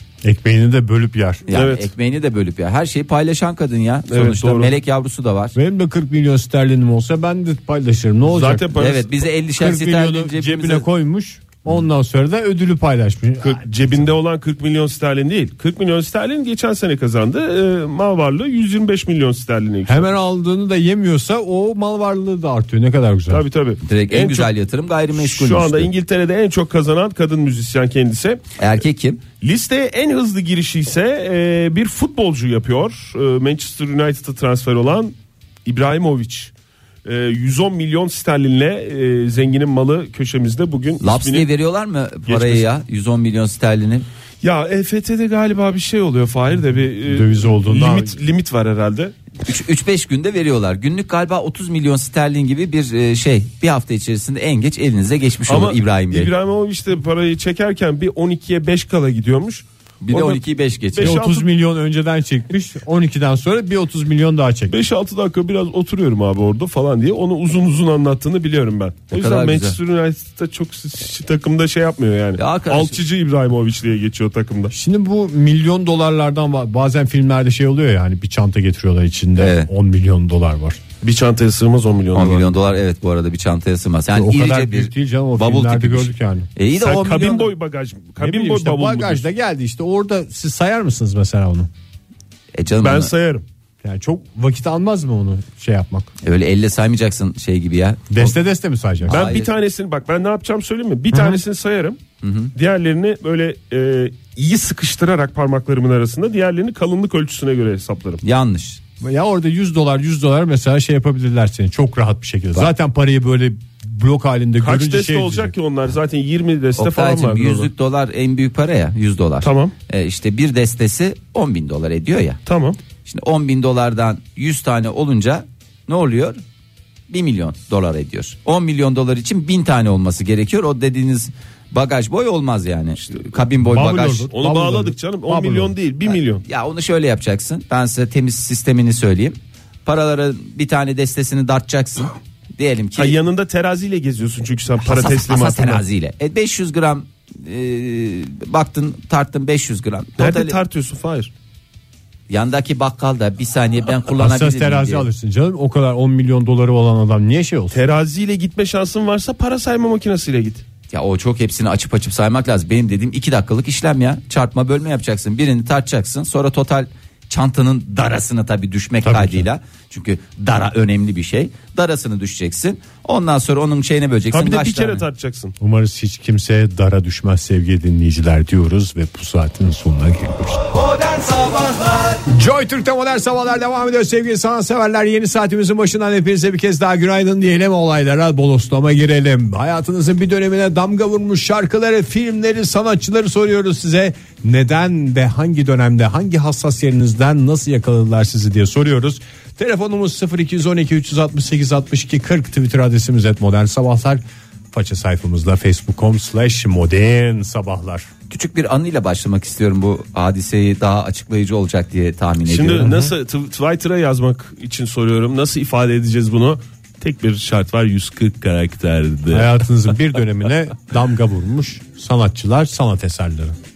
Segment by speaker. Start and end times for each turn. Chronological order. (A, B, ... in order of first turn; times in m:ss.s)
0:00.2-0:01.5 A
0:01.5-0:05.6 B
0:01.5-0:01.9 C
0:04.1-0:04.7 C
0:05.6-0:08.7 A
0:08.3-0:09.1 C
0:08.8-0:10.9 B
0:09.6-0:14.1 A
0:13.4-0:20.1 C
0:19.9-0:23.4 A
0:23.3-0:24.5 C
0:23.8-0:25.9 B
0:25.1-0:28.4 C
0:28.6-0:29.2 B
0:29.4-0:36.5 C
0:37.0-0:41.5 C
0:41.0-0:44.1 B
0:42.3-0:42.7 C
0:44.4-0:49.1 C
0:47.1-0:48.2 A
0:49.4-0:56.3 B
0:55.5-1:00.4 C
1:00.0-1:01.2 B
1:00.9-1:01.4 C
1:01.0-1:04.8 A
1:04.7-1:14.7 C
1:09.1-1:09.8 B
1:12.4-1:13.0 B
1:14.7-1:20.8 A
1:19.4-1:19.7 B
1:21.0-1:22.6 C
1:22.1-1:27.5 B
1:24.1-1:26.5 A
1:26.8-1:29.2 C
1:28.2-1:31.7 A
1:32.6-1:33.1 B
1:32.8-1:33.4 C
1:33.8-1:36.1 A
1:36.2-1:38.4 B
1:38.1-1:39.2 A
1:39.0-1:39.5 B
1:39.1-1:42.0 C
1:41.1-1:41.4 A
1:42.2-1:42.5 B
1:42.6-1:48.2 C
1:48.2-1:48.8 B
1:49.0-1:55.5 A
1:54.6-1:57.7 C
1:56.8-2:02.4 B
1:59.4-1:59.7 C
2:02.4-2:02.8 C
2:03.0-2:06.4 B
2:07.1-2:14.3 B
2:13.6-2:15.7 A
2:14.2-2:16.4 C
2:16.1-2:23.2 B
2:23.0-2:25.8 C
2:24.8-2:30.6 B
2:30.2-2:31.3 C
2:32.3-2:35.1 B
2:34.2-2:37.8 A
2:37.7-2:40.6 C
2:40.9-2:55.0 B
2:49.0-2:49.5 A
2:54.3-2:55.6 C
2:55.6-3:00.6 A
3:02.2-3:28.1 A
3:28.3-3:32.9 B
3:32.4-3:39.6 C
3:32.8-3:33.1 A
3:39.3-3:43.6 A